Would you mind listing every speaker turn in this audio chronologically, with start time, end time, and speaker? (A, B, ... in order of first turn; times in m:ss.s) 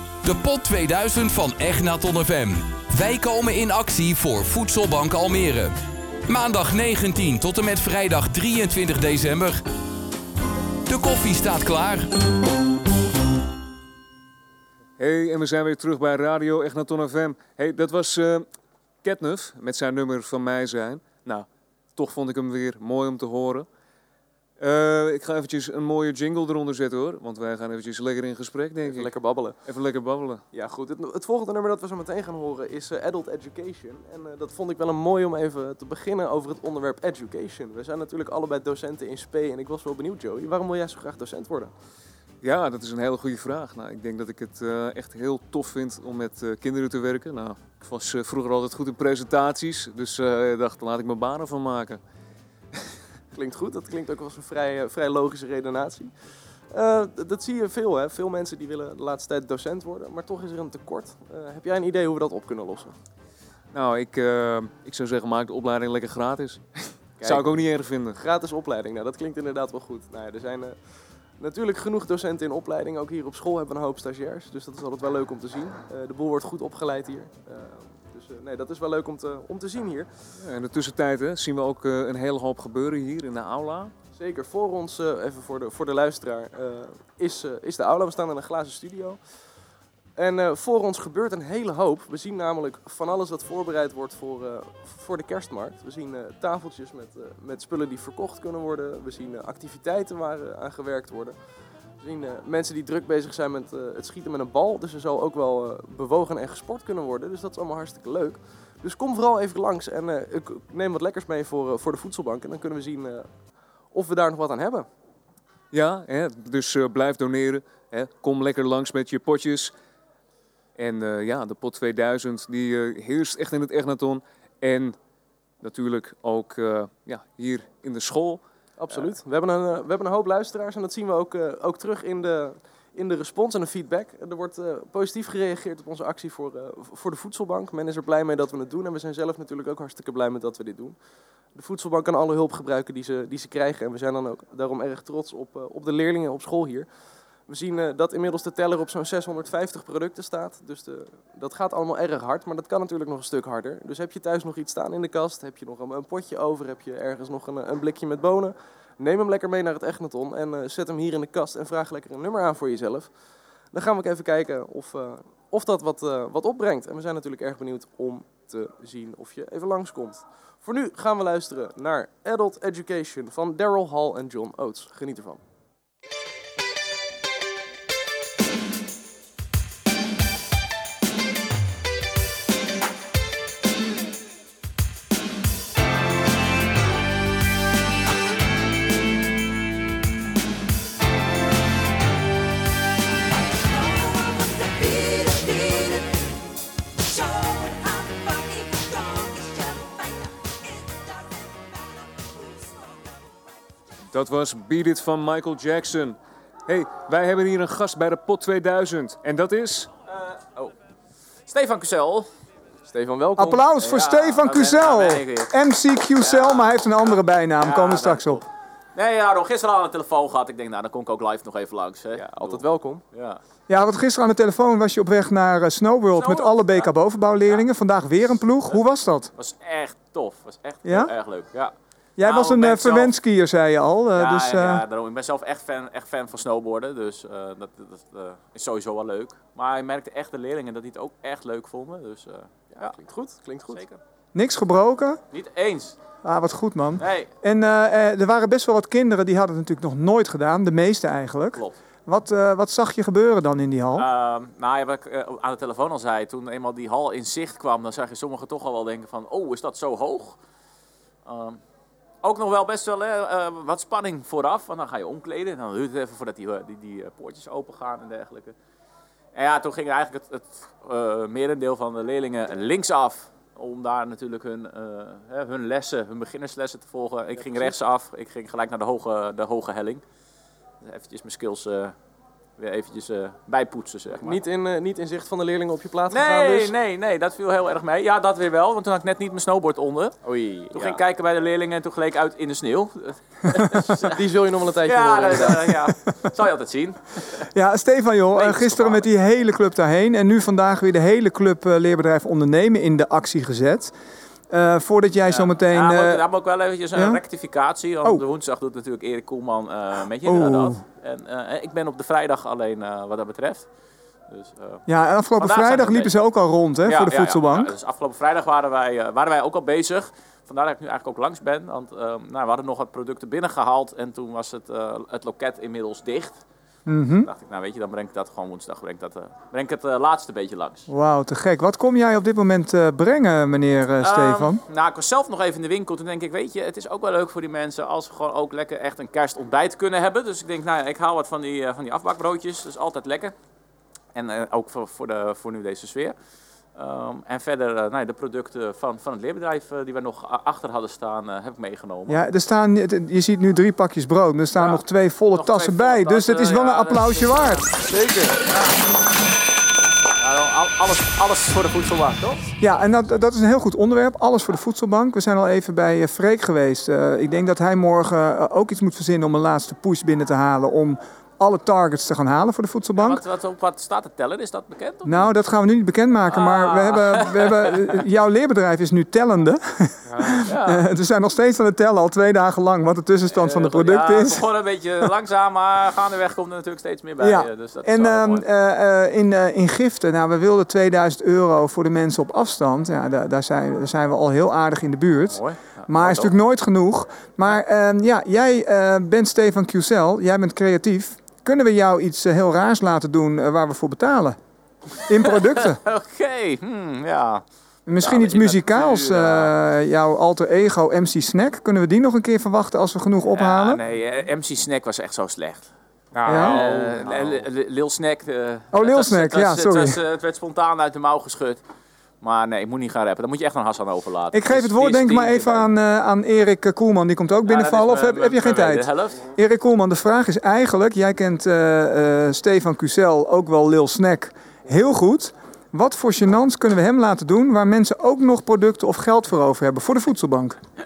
0:00.2-0:05.7 A
0:06.3-0:09.6 A
0:10.9-0:12.1 A
0:15.0-0:18.5 B
0:19.0-0:23.7 B
0:24.6-0:29.1 B
0:28.8-0:29.6 C
0:29.6-0:30.4 B
0:30.5-0:41.7 C
0:42.4-0:52.0 B
0:53.3-0:56.1 C
0:56.7-1:02.9 C
1:03.7-1:06.6 B
1:07.2-1:07.5 C
1:07.2-1:08.2 B
1:08.2-1:10.8 C
1:11.4-1:20.1 C
1:20.4-1:23.9 B
1:24.1-1:29.2 C
1:30.2-1:41.4 C
1:42.0-1:53.3 C
1:53.9-1:54.9 C
1:55.7-1:59.7 B
2:00.8-2:05.0 B
2:05.6-2:08.4 B
2:08.8-2:21.0 C
2:21.5-2:26.9 C
2:27.5-2:43.1 C
2:43.7-2:55.4 C
3:24.1-3:29.9 B
3:30.1-3:30.7 D
3:31.5-3:32.3 D
3:32.9-3:33.7 C
3:33.4-3:38.4 E
3:33.7-3:35.5 D
3:36.2-3:38.4 D
3:38.9-3:43.4 D
3:42.1-3:43.0 C
3:43.7-3:49.3 E
3:46.1-3:47.7 D
3:49.3-3:53.2 D
3:50.8-3:51.1 E
3:52.2-3:54.8 E
3:54.1-4:03.0 D
4:02.7-4:03.8 C
4:03.7-4:04.0 D
4:04.3-4:05.2 E
4:05.3-4:06.0 D
4:06.2-4:14.1 E
4:07.0-4:07.3 D
4:13.9-4:20.4 D
4:21.2-4:21.6 D
4:22.2-4:28.5 D
4:29.3-4:40.0 D
4:37.3-4:37.7 C
4:40.8-4:41.9 D
4:42.6-4:44.4 D
4:44.2-4:46.7 C
4:46.1-4:54.2 D
4:54.0-4:55.8 C
4:54.8-4:57.0 D
4:57.5-5:03.9 E
4:58.3-4:59.1 D
5:04.5-5:06.2 E
5:05.2-5:13.7 D
5:06.9-5:07.2 E
5:10.2-5:10.8 E
5:14.3-5:14.8 D
5:14.9-5:17.7 E
5:15.4-5:16.2 D
5:16.8-5:26.4 D
5:26.9-5:27.3 E
5:27.2-5:30.9 D
5:30.9-5:34.6 E
5:34.0-5:43.3 D
5:44.1-5:46.2 D
5:46.7-5:52.2 D
5:52.1-5:57.6 E
5:54.5-5:57.8 D
5:57.9-5:58.3 C
5:58.5-5:58.7 D
6:00.2-6:02.5 D
6:02.6-6:13.2 E
6:13.0-6:15.3 D
6:15.0-6:24.4 E
6:16.3-6:18.0 D
6:20.1-6:20.8 D
6:23.3-6:28.4 D
6:27.2-6:44.4 E
6:35.3-6:36.3 D
6:45.1-6:45.8 E
6:45.2-6:47.4 D
6:47.9-6:53.8 E
6:48.0-6:49.5 D
6:53.3-6:55.7 D
6:56.2-6:57.4 B
6:56.2-7:01.6 D
6:56.3-6:56.6 E
6:58.7-7:00.0 E
7:02.2-7:05.7 D
7:04.3-7:20.6 E
7:07.4-7:09.2 D